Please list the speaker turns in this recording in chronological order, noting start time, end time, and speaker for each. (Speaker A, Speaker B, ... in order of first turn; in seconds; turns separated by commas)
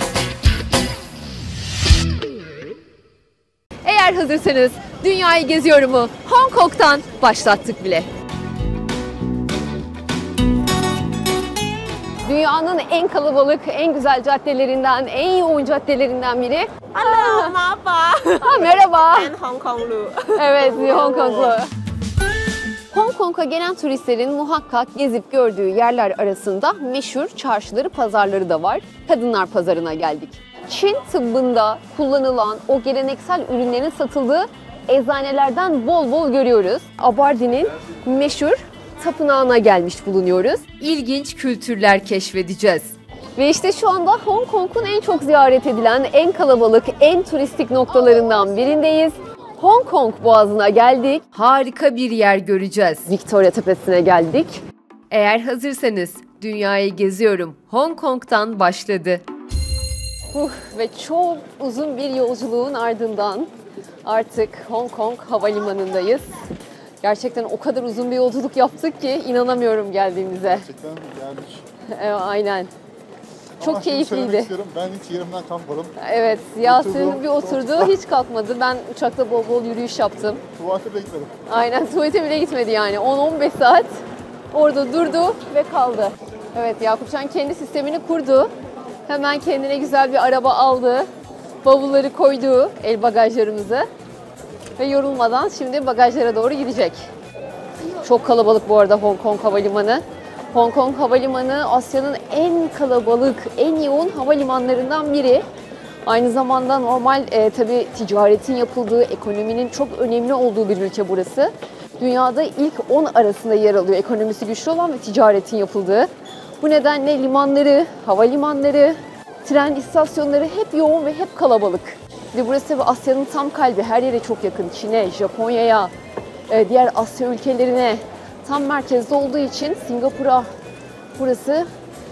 Speaker A: 3.8-8.1, Speaker A: 12.2-17.6, Speaker B: 16.9-18.6, Speaker A: 18.4-19.3, Speaker B: 19.2-20.2, Speaker A: 20.3-21.7, Speaker B: 20.8-21.5, Speaker A: 22.9-59.2, Speaker A: 60.3-63.5, Speaker A: 64.0-66.4, Speaker A: 67.0-70.7, Speaker C: 70.5-71.6, Speaker A: 71.9-72.7, Speaker C: 73.6-75.9, Speaker A: 73.6-74.5, Speaker A: 76.0-80.4, Speaker C: 76.6-77.9, Speaker C: 80.5-81.3, Speaker A: 81.5-83.9, Speaker A: 84.5-88.5, Speaker A: 89.1-91.1, Speaker A: 91.6-93.8, Speaker A: 94.8-97.0, Speaker A: 98.0-105.4, Speaker A: 106.0-116.1, Speaker A: 116.6-125.9, Speaker A: 126.5-130.5, Speaker A: 131.2-131.7